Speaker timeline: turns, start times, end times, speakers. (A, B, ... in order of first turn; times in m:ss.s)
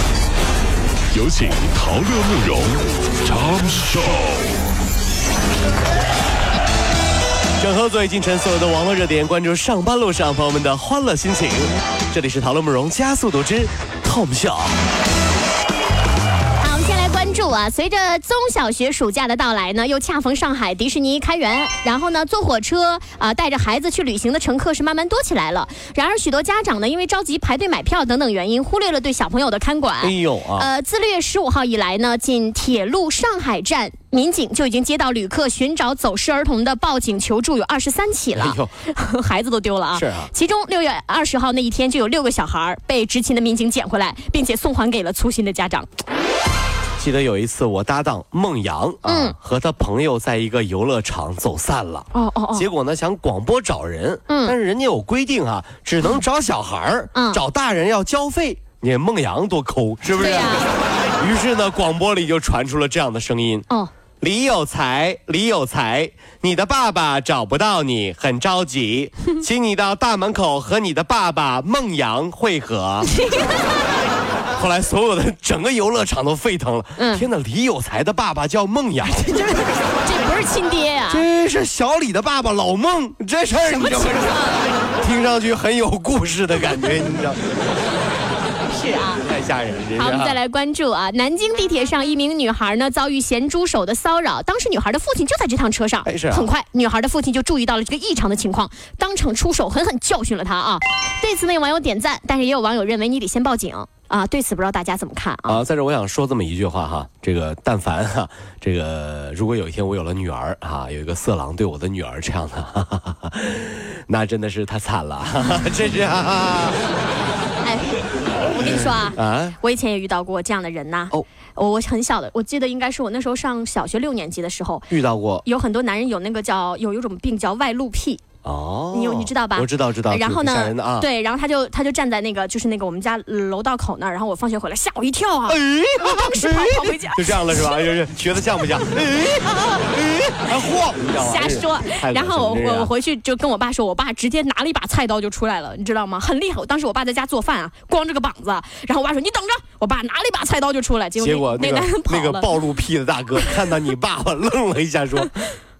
0:01.1-0:04.5 A
0:07.6-0:14.8 B
0:16.6-0:45.9 C
0:30.0-0:30.7 B
0:38.3-0:38.7 B
0:39.9-0:40.3 B
0:47.0-1:00.7 B
0:49.0-0:49.3 C
0:52.1-0:52.6 C
0:54.3-0:54.5 C
0:57.1-0:57.4 C
1:00.2-1:00.7 C
1:01.2-1:03.6 B
1:04.2-1:13.1 B
1:13.1-1:13.6 C
1:14.5-1:19.5 B
1:17.0-1:17.2 C
1:19.2-1:21.2 C
1:21.1-1:27.4 B
1:23.7-1:24.7 C
1:28.7-1:29.2 C
1:29.2-1:30.4 B
1:30.0-1:45.6 C
1:36.0-1:36.5 B
1:45.5-1:56.8 B
1:57.6-2:04.9 C
1:59.1-1:59.6 B
2:04.9-2:05.4 B
2:05.4-2:08.2 C
2:08.4-2:11.1 B
2:08.9-2:17.9 C
2:15.5-2:22.9 B
2:21.1-2:32.5 C
2:31.2-2:35.4 B